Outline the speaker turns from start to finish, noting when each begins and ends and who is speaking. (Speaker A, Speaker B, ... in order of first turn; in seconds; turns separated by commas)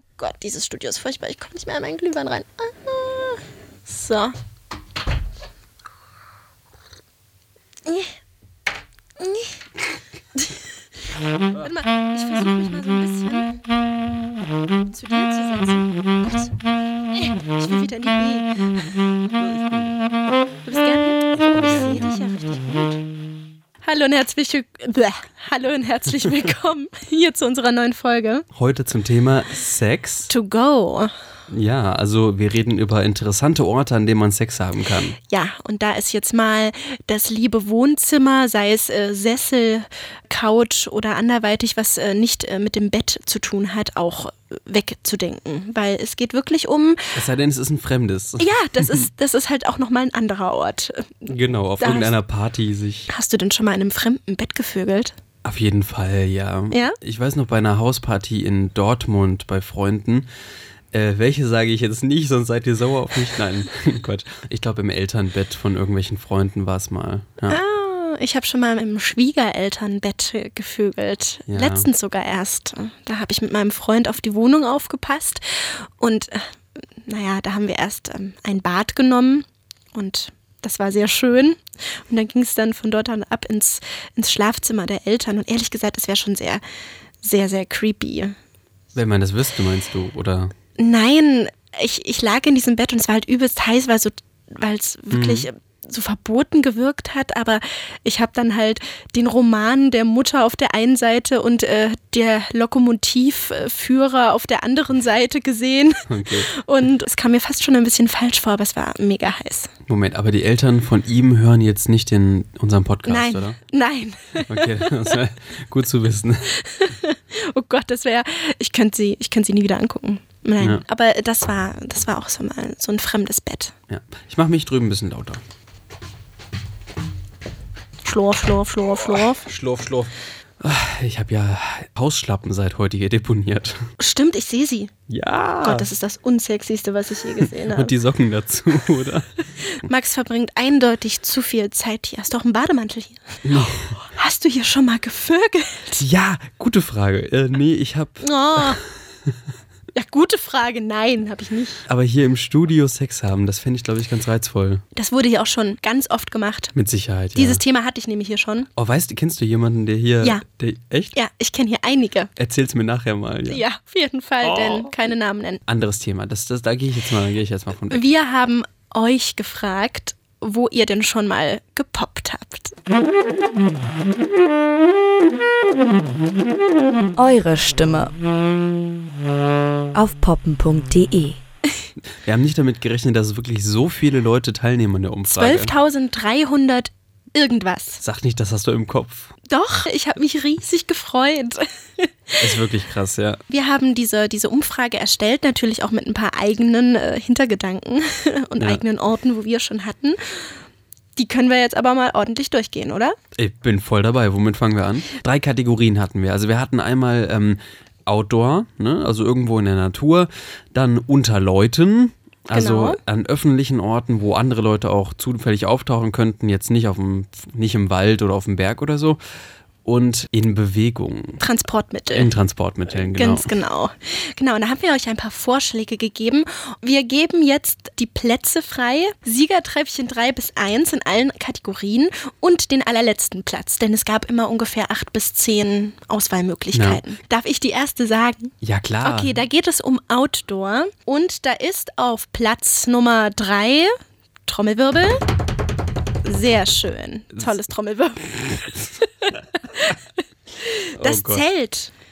Speaker A: 0.2-4.3, Speaker A: 7.9-8.2, Speaker A: 9.2-9.6, Speaker A: 10.4-10.7, Speaker A: 11.6-13.6, Speaker A: 14.9-16.5, Speaker A: 17.1-18.7, Speaker B: 19.4-20.0, Speaker A: 20.7-23.0, Speaker B: 21.4-22.1, Speaker A: 23.8-28.5, Speaker B: 28.5-30.3, Speaker A: 30.3-31.1, Speaker B: 31.5-35.2, Speaker A: 35.2-47.2, Speaker B: 47.1-49.1, Speaker A: 48.4-52.1, Speaker B: 51.3-53.1, Speaker A: 53.1-55.1, Speaker B: 55.4-60.3, Speaker A: 56.7-57.0, Speaker B: 60.9-67.6, Speaker A: 67.5-76.5, Speaker B: 71.5-71.9, Speaker A: 77.0-86.6, Speaker A: 87.2-88.4, Speaker B: 88.9-90.5, Speaker A: 90.8-109.7, Speaker B: 95.1-95.5, Speaker B: 106.1-106.5, Speaker B: 109.9-113.6, Speaker A: 113.1-115.1, Speaker B: 114.5-116.5, Speaker A: 116.5-123.7, Speaker B: 123.9-125.4, Speaker A: 128.1-129.5, Speaker B: 129.1-133.9, Speaker A: 134.0-134.9, Speaker B: 135.1-135.9, Speaker A: 135.6-137.9, Speaker B: 137.4-139.3, Speaker A: 139.6-146.0, Speaker B: 143.4-143.9, Speaker B: 146.0-148.8, Speaker A: 148.2-148.8, Speaker A: 149.9-151.8, Speaker B: 151.9-154.8, Speaker A: 154.9-156.8, Speaker B: 156.8-157.6, Speaker A: 157.3-158.7, Speaker B: 158.8-161.2, Speaker A: 161.2-162.3, Speaker B: 162.4-163.6, Speaker A: 163.5-165.6, Speaker B: 164.4-164.9, Speaker B: 165.7-168.1, Speaker A: 167.9-172.7, Speaker C: 177.2-178.2, Speaker C: 179.9-181.4, Speaker B: 182.2-185.7, Speaker A: 185.3-188.0, Speaker B: 188.0-189.3, Speaker A: 189.5-192.4, Speaker B: 192.4-193.4, Speaker A: 193.5-200.5, Speaker B: 198.6-198.8, Speaker A: 201.2-203.2, Speaker B: 203.4-219.2, Speaker A: 212.5-213.0, Speaker B: 219.8-221.4, Speaker A: 221.4-222.3, Speaker B: 222.1-223.5, Speaker A: 223.0-245.2, Speaker B: 236.7-237.0, Speaker B: 238.6-239.4, Speaker A: 246.2-248.7, Speaker A: 249.2-250.0, Speaker A: 250.6-251.9, Speaker B: 251.0-251.4